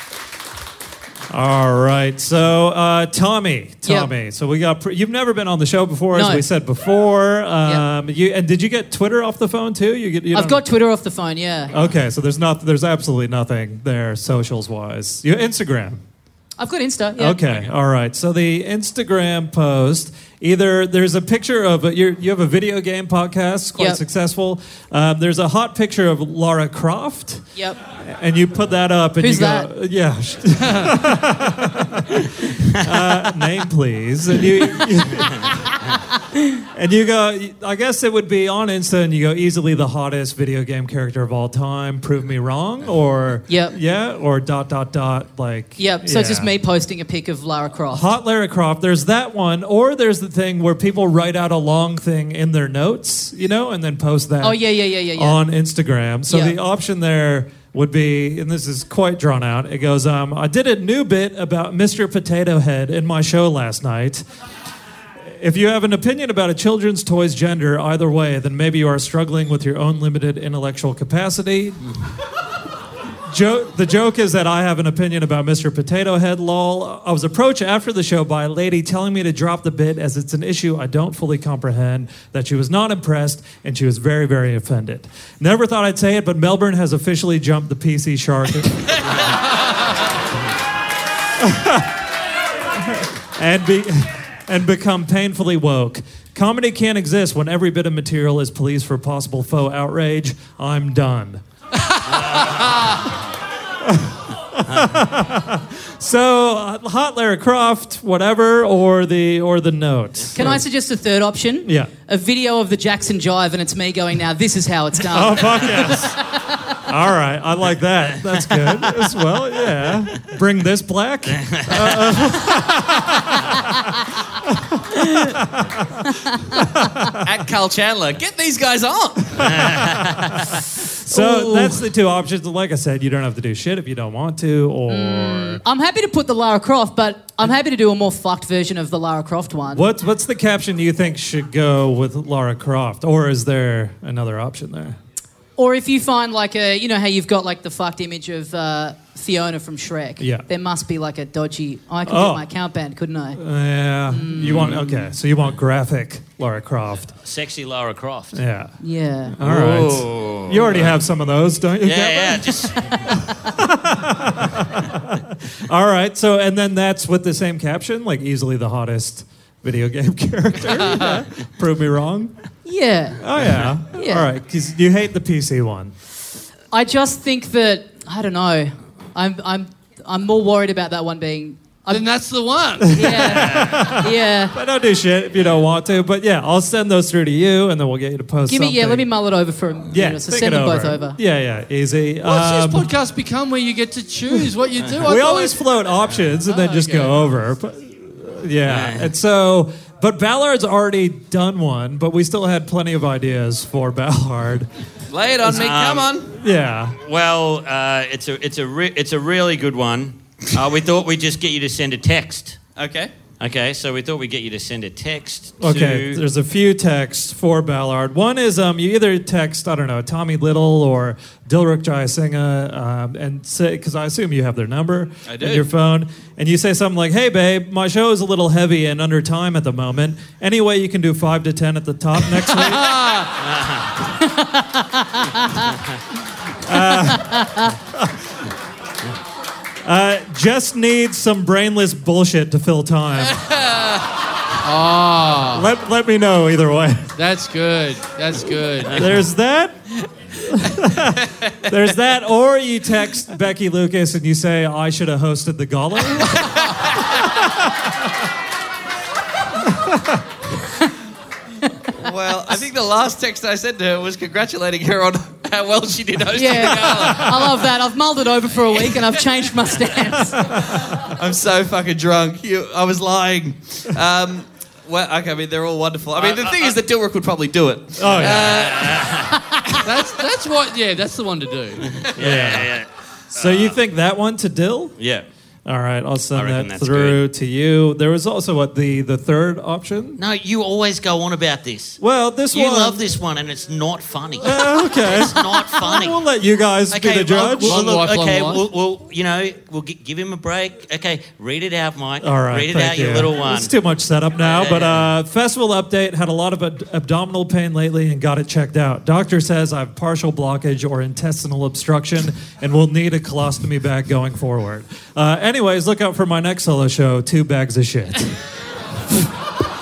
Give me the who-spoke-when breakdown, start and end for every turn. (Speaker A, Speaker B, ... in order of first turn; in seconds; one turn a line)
Speaker A: 1.3-10.6
Speaker B: 6.1-6.5
Speaker B: 10.3-11.8
Speaker A: 11.7-16.0
Speaker B: 16.6-17.7
Speaker A: 17.2-35.8
Speaker B: 29.2-29.7
Speaker A: 36.6-46.5
Speaker B: 43.5-43.8
Speaker B: 45.8-48.1
Speaker A: 47.9-54.6
Speaker B: 54.4-55.4
Speaker A: 55.1-64.2
Speaker B: 56.3-56.6
Speaker A: 65.2-72.0
Speaker A: 73.3-89.0
Speaker A: 91.4-92.0
Speaker A: 92.7-101.4
Speaker C: 102.1-103.1
Speaker A: 103.8-110.6
Speaker C: 104.7-105.0
Speaker B: 110.3-116.8
Speaker A: 111.7-111.9
Speaker A: 115.0-116.2
Speaker A: 116.8-123.9
Speaker C: 121.3-122.5
Speaker A: 124.4-127.3
Speaker B: 126.0-127.0
Speaker D: 127.2-129.9
Speaker C: 129.4-130.6
Speaker A: 130.9-135.6
Speaker D: 131.1-131.8
Speaker B: 134.9-139.9
Speaker A: 139.7-145.0
Speaker B: 145.6-153.4
Speaker A: 150.2-150.5
Speaker A: 152.1-152.4
Speaker A: 153.4-157.1
Speaker B: 154.1-154.8
Speaker C: 154.4-154.9
Speaker C: 157.2-158.4
Speaker A: 158.3-158.8
Speaker B: 158.8-159.4
Speaker A: 159.3-172.3
Speaker C: 159.4-160.9
Speaker C: 161.8-163.3
Speaker B: 172.7-173.2
Speaker A: 173.2-175.9
Speaker B: 173.9-174.3
Speaker B: 176.7-182.1
Speaker E: 181.9-183.3
Speaker A: 182.8-189.1
Speaker B: 182.9-184.6
Speaker C: 183.2-183.9
Speaker B: 188.5-191.2
Speaker A: 189.9-192.9
Speaker E: 192.2-195.6
Speaker A: 195.0-204.7
Speaker E: 196.5-197.2
Speaker C: 198.7-199.1
Speaker D: 205.1-206.3
Speaker C: 205.5-206.2
Speaker A: 206.3-207.0
Speaker C: 207.0-212.6
Speaker D: 212.8-213.1
Speaker C: 213.4-216.2
Speaker A: 215.6-233.0
Speaker D: 225.3-225.7
Speaker C: 233.4-234.0
Speaker B: 234.2-235.7
Speaker A: 236.6-238.2
Speaker B: 237.0-237.8
Speaker A: 239.8-243.4
Speaker E: 244.6-245.7
Speaker A: 245.4-247.1
Speaker E: 247.2-249.1
Speaker A: 248.8-256.4
Speaker A: 257.1-257.8
Speaker A: 259.7-260.2
Speaker D: 261.9-267.6
Speaker B: 266.3-270.6
Speaker A: 270.3-271.0
Speaker D: 270.8-279.3
Speaker C: 276.2-276.8
Speaker A: 278.0-278.7
Speaker C: 278.1-279.7
Speaker E: 279.7-282.1
Speaker C: 282.0-283.8
Speaker A: 282.2-282.8
Speaker A: 283.3-285.0
Speaker C: 285.0-285.3
Speaker A: 285.7-290.2
Speaker C: 286.3-287.2
Speaker C: 290.2-292.0
Speaker A: 292.0-293.1
Speaker C: 292.5-296.2
Speaker A: 294.4-297.9
Speaker C: 296.9-303.7
Speaker E: 297.6-298.6
Speaker A: 302.2-318.4
Speaker C: 304.4-305.1